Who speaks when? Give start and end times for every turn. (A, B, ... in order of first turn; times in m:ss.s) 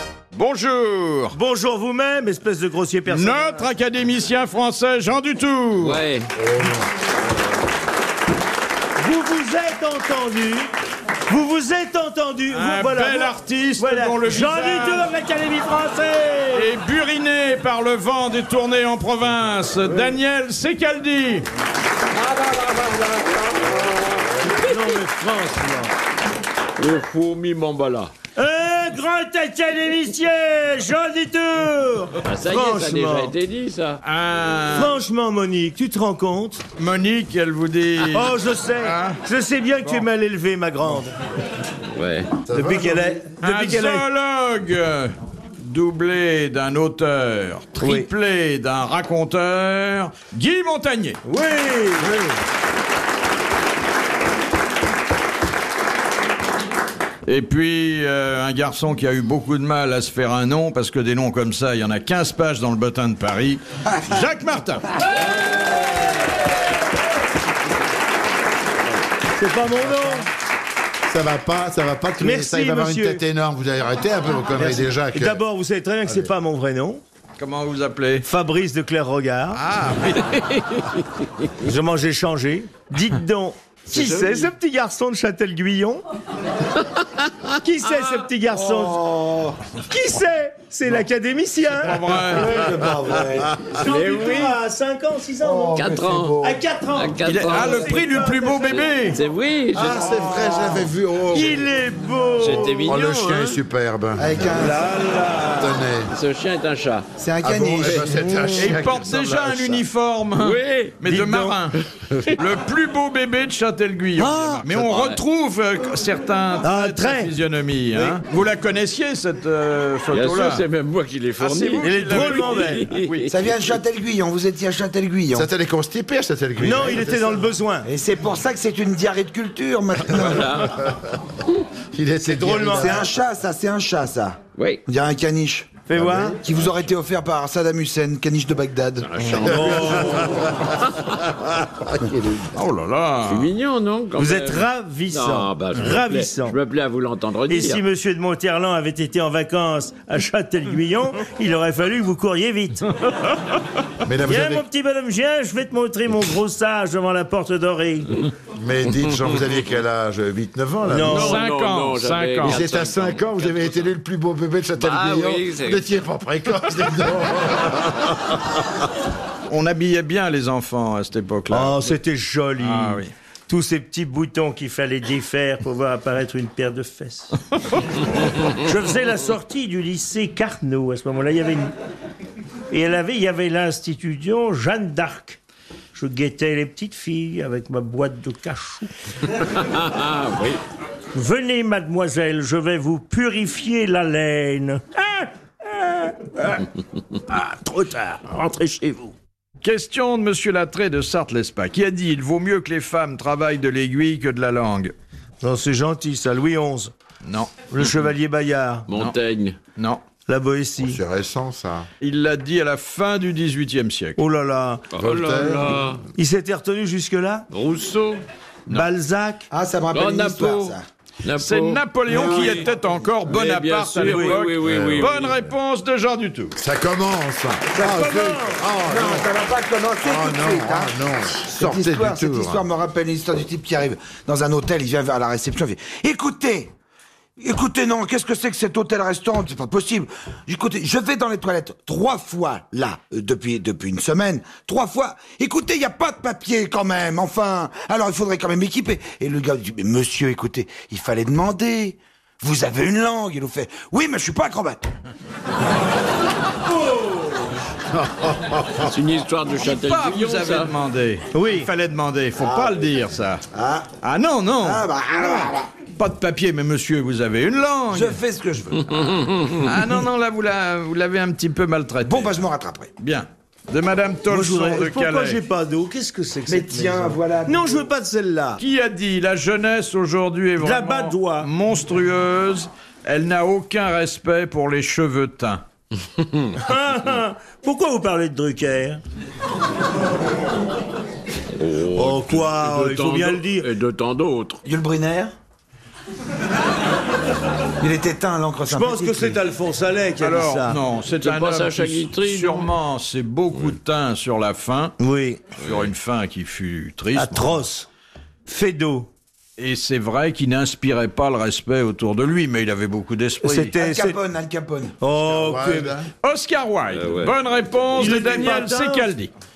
0:00.3-0:01.4 A
0:01.3-0:03.7 B
0:03.1-0:06.0 A
0:05.8-0:06.3 C
0:06.4-0:06.9 D
0:09.0-0:10.7 B
0:11.3-0:16.7 B
0:12.5-0:15.1 A
0:16.5-0:21.5 A
0:22.2-0:24.8 C
0:24.5-0:25.9 B
0:26.8-0:28.1 C
0:28.4-0:33.4 B
0:32.2-0:34.0 C
0:34.0-0:35.0 A
0:34.7-0:36.6 B
0:36.8-0:39.2 A
0:38.1-0:41.2 B
0:41.9-0:42.3 C
0:42.5-0:43.1 D
0:42.5-0:44.1 B
0:43.4-0:51.2 A
0:47.8-0:48.1 B
0:51.2-0:52.2 B
0:57.2-1:04.9 A
1:03.9-1:04.3 E
1:09.4-1:10.3 B
1:09.9-1:10.2 D
1:11.1-1:15.4 D
1:12.2-1:13.2 B
1:14.5-1:17.0 B
1:17.4-1:18.2 A
1:18.2-1:19.6 B
1:19.5-1:20.6 A
1:21.6-1:26.0 B
1:23.9-1:24.4 C
1:27.5-1:29.1 B
1:28.5-1:29.6 E
1:29.9-1:35.8 B
1:31.7-1:32.6 A
1:32.2-1:33.6 E
1:33.8-1:34.6 C
1:35.4-1:36.6 E
1:35.8-1:36.4 C
1:36.4-1:38.9 B
1:37.0-1:38.0 C
1:37.2-1:39.2 A
1:38.7-1:40.0 C
1:39.7-1:41.8 D
1:39.8-1:43.0 B
1:42.4-1:43.6 C
1:42.9-1:44.5 D
1:44.2-1:44.9 E
1:44.5-1:45.9 B
1:45.5-1:46.1 D
1:46.1-1:47.1 C
1:47.2-1:48.8 E
1:47.4-1:49.8 D
1:48.6-2:00.6 A
1:50.4-1:51.0 C
1:51.1-1:51.6 B
1:54.2-1:54.6 B
1:54.7-1:55.2 C
1:56.6-1:57.4 B
1:57.9-1:58.2 B
2:00.1-2:03.3 C
2:01.4-2:03.4 A
2:01.8-2:02.9 B
2:03.3-2:05.5 E
2:05.3-2:07.5 D
2:06.6-2:07.9 B
2:07.8-2:10.7 E
2:10.1-2:10.8 C
2:10.8-2:11.2 D
2:11.9-2:13.1 D
2:12.2-2:13.1 B
2:12.5-2:15.8 E
2:14.6-2:14.8 C
2:15.9-2:16.4 B
2:15.9-2:16.4 D
2:16.4-2:19.4 E
2:19.0-2:21.0 C
2:19.4-2:20.5 B
2:19.8-2:22.6 D
2:22.5-2:23.5 A
2:23.2-2:27.8 C
2:24.2-2:26.6 B
2:27.5-2:32.9 B
2:34.0-2:34.6 D
2:34.2-2:38.3 B
2:38.6-2:41.3 D
2:40.9-2:41.4 B
2:41.1-2:43.9 C
2:41.1-2:42.6 A
2:42.4-2:48.6 D
2:44.8-2:45.9 C
2:49.5-2:51.9 A
2:51.5-2:57.4 B
2:52.6-2:53.1 A
2:58.0-3:01.7 B
3:02.7-3:05.4 B
3:05.9-3:08.9 B
3:09.4-3:10.6 C
3:11.1-3:16.7 B
3:17.3-3:19.2 B
3:19.6-3:24.9 A
3:25.4-3:26.9 B
3:27.2-3:27.6 A
3:27.7-3:28.9 B
3:28.9-3:29.6 C
3:29.8-3:30.0 A
3:30.3-3:31.0 B
3:30.8-3:31.9 D
3:32.0-3:34.2 A
3:34.2-3:34.9 B
3:34.9-3:36.0 C
3:35.0-3:35.9 D
3:36.2-3:37.5 B
3:37.5-3:38.2 C
3:38.7-3:39.5 B
3:39.5-3:40.8 E
3:39.9-3:42.7 C
3:41.4-3:46.6 A
3:42.1-3:42.7 E
3:43.3-3:45.3 C
3:44.0-3:44.4 B
3:44.6-3:45.2 D
3:46.6-3:49.3 D
3:47.7-3:48.6 B
3:48.8-3:56.7 E
3:50.0-3:52.6 D
3:57.4-4:14.8 E
4:16.7-4:17.5 B
4:18.0-4:18.8 D
4:18.8-4:20.7 C
4:19.6-4:23.4 A
4:21.3-4:21.7 B
4:22.4-4:22.9 E
4:23.5-4:23.9 E
4:24.0-4:24.8 A
4:24.6-4:25.7 E
4:25.4-4:28.2 A
4:27.9-4:29.5 E
4:29.5-4:32.4 A
4:32.0-4:32.9 E
4:33.0-4:35.4 A
4:34.3-4:38.6 B
4:36.5-4:37.9 E
4:38.6-4:45.6 A
4:40.6-4:41.5 B
4:46.6-4:49.0 B
4:51.6-4:54.6 C
4:51.9-4:53.7 B
4:54.6-4:55.3 E
4:57.8-4:59.4 E
4:58.7-5:00.8 B
5:00.2-5:05.0 A
5:01.2-5:02.7 C
5:05.0-5:05.4 B
5:05.6-5:07.6 A
5:07.1-5:07.9 B
5:08.5-5:09.1 B
5:09.6-5:13.8 A
5:13.4-5:14.2 B
5:13.8-5:15.0 E
5:15.0-5:16.0 B
5:15.2-5:16.1 D
5:16.2-5:19.3 A
5:16.9-5:18.3 C
5:17.9-5:19.1 B